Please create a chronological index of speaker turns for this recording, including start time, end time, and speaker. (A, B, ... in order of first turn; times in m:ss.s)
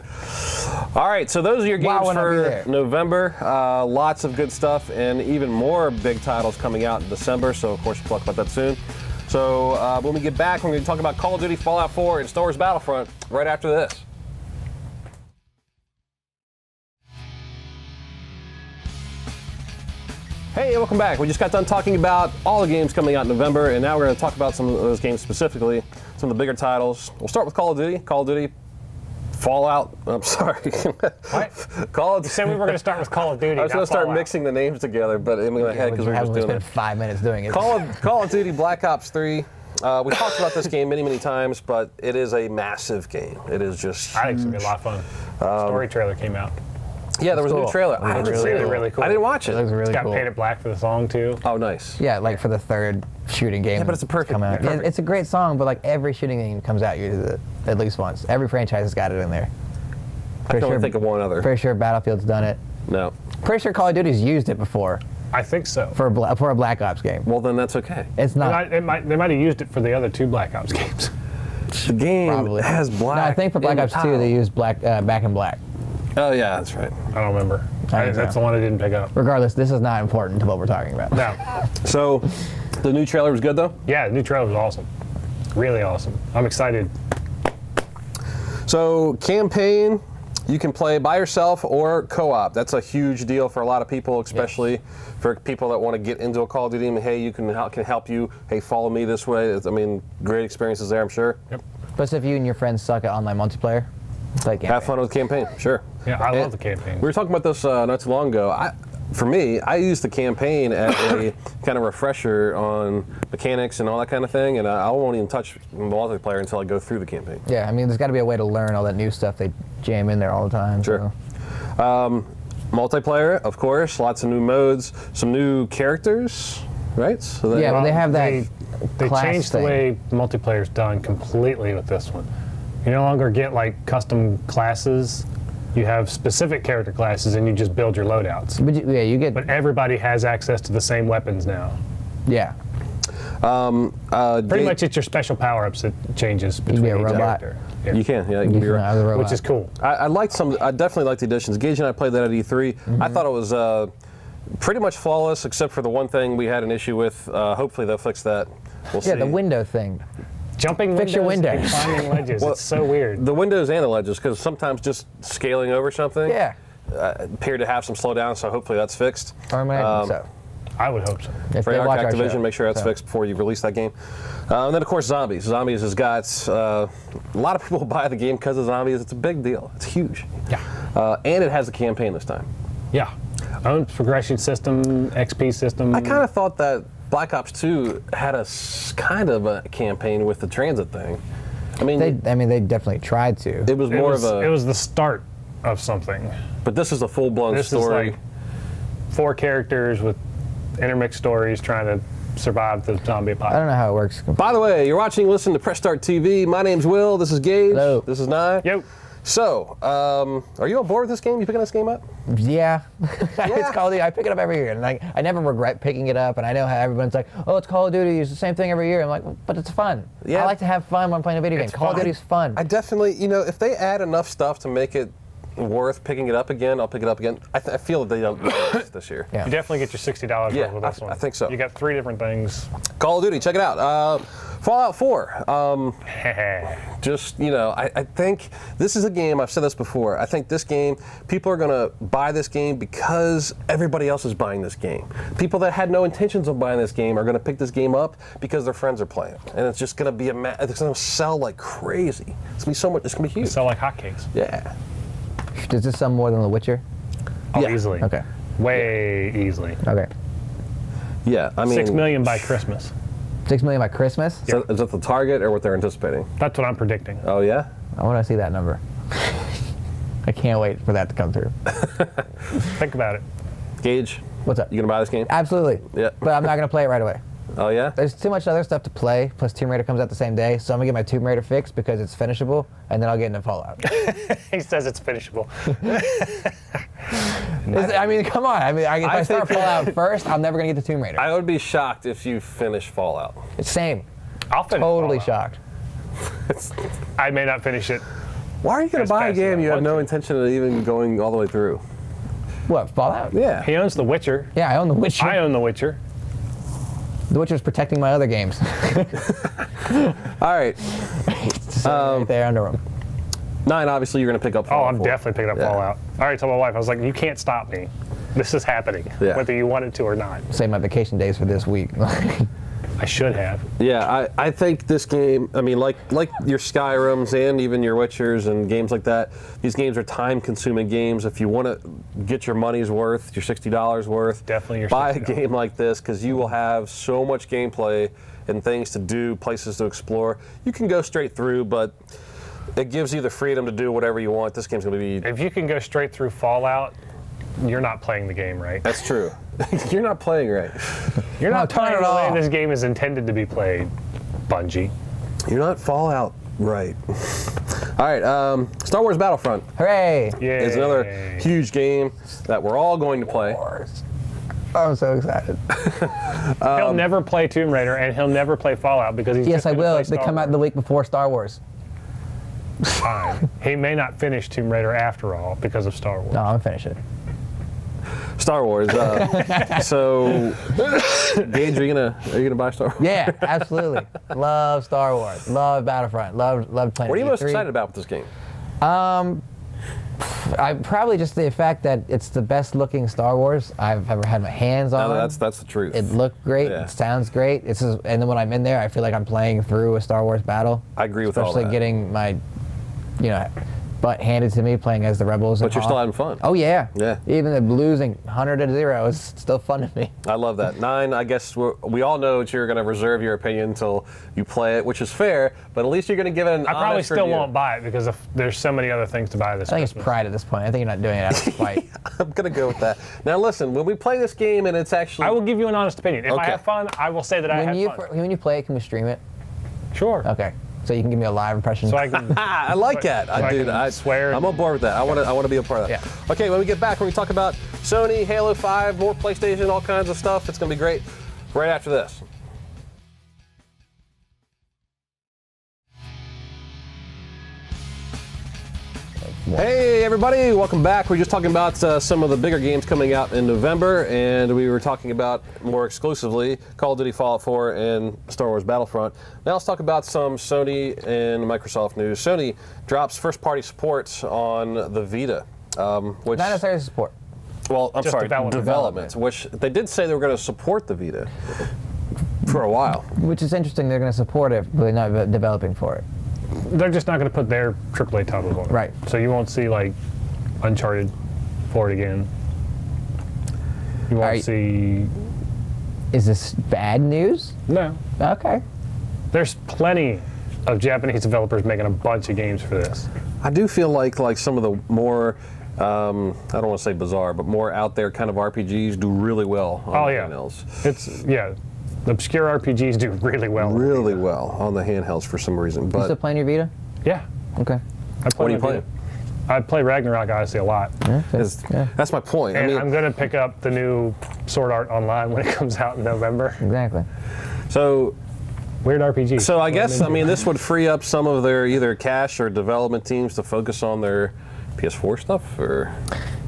0:00.2-0:14.0 A
0:01.8-0:02.7 B
0:20.5-0:28.5 A
0:29.4-0:32.8 A
0:32.2-0:34.3 C
0:33.4-0:36.7 A
0:35.6-0:38.0 B
0:37.5-0:44.7 A
0:44.1-0:46.6 C
0:45.4-0:45.8 A
0:47.2-0:49.6 A
0:47.3-0:50.3 B
0:48.1-0:49.3 C
0:49.8-0:51.4 C
0:51.4-0:52.0 A
0:52.0-0:59.5 B
0:53.7-0:54.9 A
1:00.5-1:01.5 A
1:00.5-1:02.6 B
1:02.9-1:03.1 A
1:03.4-1:05.0 B
1:05.3-1:06.0 C
1:05.9-1:07.3 B
1:07.2-1:08.1 A
1:08.2-1:08.7 B
1:08.4-1:11.1 C
1:11.7-1:14.4 A
1:12.2-1:15.6 B
1:16.2-1:17.0 A
1:17.1-1:19.1 C
1:17.9-1:18.4 B
1:19.1-1:21.4 B
1:21.1-1:21.4 C
1:21.8-1:23.8 A
1:23.8-1:24.9 C
1:25.5-1:26.9 C
1:28.6-1:41.4 A
1:42.0-1:43.9 B
1:44.4-1:44.9 B
1:44.7-1:57.4 A
1:46.0-1:47.1 C
1:57.4-2:01.1 B
2:01.8-2:08.0 A
2:07.5-2:09.9 B
2:07.6-2:12.3 C
2:12.8-2:18.6 C
2:18.6-2:19.5 B
2:19.3-2:21.8 C
2:22.3-2:22.5 B
2:23.4-2:24.8 A
2:24.5-2:28.0 C
2:26.7-2:27.4 B
2:27.9-2:28.9 A
2:28.4-2:29.4 B
2:29.1-2:29.7 C
2:29.8-2:33.9 A
2:32.9-2:33.2 B
2:34.6-2:39.4 A
2:39.0-2:40.0 B
2:40.6-2:43.2 C
2:40.9-2:42.1 B
2:42.4-2:46.4 A
2:46.3-2:46.5 B
2:46.9-2:50.2 A
2:49.5-2:50.3 B
2:50.8-2:51.4 C
2:51.5-2:52.9 B
2:51.6-2:53.9 A
2:54.5-3:00.3 A
3:00.9-3:02.5 A
3:02.9-3:06.2 C
3:05.9-3:11.2 A
3:11.8-3:12.2 A
3:11.9-3:13.7 B
3:13.6-3:14.6 A
3:13.9-3:16.3 C
3:16.6-3:18.2 A
3:17.5-3:18.2 C
3:19.1-3:20.2 C
3:20.8-3:23.6 C
3:23.5-3:24.4 B
3:24.4-3:28.7 A
3:27.7-3:28.0 B
3:29.2-3:32.0 A
3:32.3-3:42.6 B
3:33.4-3:33.8 A
3:40.2-3:40.6 A
3:41.6-3:49.3 A
3:41.7-3:42.1 C
3:49.4-3:52.7 C
3:50.5-3:51.6 A
3:53.0-3:56.0 A
3:56.1-3:56.8 C
3:57.0-4:13.6 A
4:13.4-4:14.3 C
4:14.3-4:14.7 A
4:15.6-4:16.8 B
4:17.5-4:17.9 A
4:17.5-4:19.8 C
4:18.0-4:18.2 B
4:19.8-4:20.1 B
4:21.2-4:22.5 A
4:21.6-4:22.9 C
4:23.4-4:24.5 B
4:24.5-4:26.3 A
4:26.4-4:27.2 C
4:27.2-4:27.7 A
4:28.0-4:29.4 B
4:30.2-4:31.5 B
4:32.6-4:33.2 C
4:33.8-4:35.3 A
4:34.4-4:34.7 B
4:35.2-4:37.2 B
4:35.9-4:36.5 A
4:37.6-4:38.0 A
4:38.0-4:43.8 B
4:43.8-4:46.5 C
4:47.4-4:48.0 C
4:47.7-4:51.3 B
4:49.0-4:50.0 A
4:51.2-4:53.4 A
4:53.6-4:54.0 B
4:54.5-4:55.3 C
4:54.7-4:55.6 B
4:57.2-4:58.0 C
4:58.6-5:01.8 A
4:58.9-5:00.1 C
5:02.7-5:03.3 B
5:03.3-5:03.7 A
5:03.6-5:04.5 C
5:04.5-5:05.5 B
5:05.2-5:06.0 C
5:07.3-5:09.2 B
5:10.4-5:11.3 A
5:11.3-5:12.8 B
5:11.8-5:12.3 A
5:13.6-5:15.8 A
5:14.7-5:20.4 C
5:19.2-5:19.5 A
5:20.5-5:22.5 B
5:23.0-5:23.6 C
5:23.8-5:41.9 A
5:34.5-5:35.4 C
5:42.8-5:45.2 A
5:45.2-5:46.9 C
5:47.6-5:48.9 C
5:48.8-5:51.2 A
5:51.4-5:53.9 C
5:51.4-5:52.4 B
5:54.5-5:54.9 C
5:55.4-5:59.6 A
5:59.8-6:00.4 B
6:00.4-6:01.5 C
6:00.5-6:03.6 A
6:03.5-6:04.0 B
6:04.7-6:05.6 B
6:05.7-6:07.1 A
6:06.7-6:10.6 C
6:09.4-6:11.6 B
6:13.0-6:16.5 C
6:16.3-6:17.0 B
6:18.4-6:23.9 A
6:19.0-6:19.8 B
6:23.0-6:27.7 B
6:27.0-6:28.3 A
6:28.8-6:29.4 B
6:30.2-6:35.4 B
6:35.0-6:36.9 A
6:35.9-6:42.4 B
6:41.0-6:41.8 A
6:43.2-6:50.1 B
6:45.6-6:46.4 A
6:46.9-6:47.2 A
6:50.2-6:57.5 A
6:56.6-7:00.1 C
6:59.7-7:01.8 B
7:01.3-7:05.4 A
7:05.2-7:08.1 C
7:06.3-7:06.6 A
7:07.5-7:09.2 B
7:09.9-7:10.3 C
7:10.2-7:12.1 B
7:11.8-7:14.6 C
7:12.1-7:22.2 A
7:29.5-7:46.6 A
7:46.3-7:47.1 B
7:47.7-7:51.3 A
7:48.0-7:49.0 C
7:48.6-7:49.0 B
7:52.4-7:53.1 A
7:53.2-7:56.0 B
7:56.6-8:00.0 C
8:00.6-8:01.1 C
8:01.7-8:02.3 C
8:04.1-8:05.1 C
8:04.2-8:04.4 B
8:06.1-8:07.5 B
8:07.7-8:08.0 C
8:08.2-8:08.6 B
8:09.3-8:13.1 C
8:13.4-8:20.8 A
8:19.9-8:24.2 C
8:23.6-8:26.2 A
8:26.0-8:26.7 B
8:27.6-8:27.8 B
8:28.2-8:28.8 C
8:28.4-8:28.8 A
8:29.5-8:30.9 C
8:31.0-8:31.9 B
8:31.3-8:32.9 A
8:32.5-8:36.6 C
8:36.6-8:37.0 B
8:37.7-8:38.2 A
8:38.8-8:40.4 C
8:39.4-8:46.0 A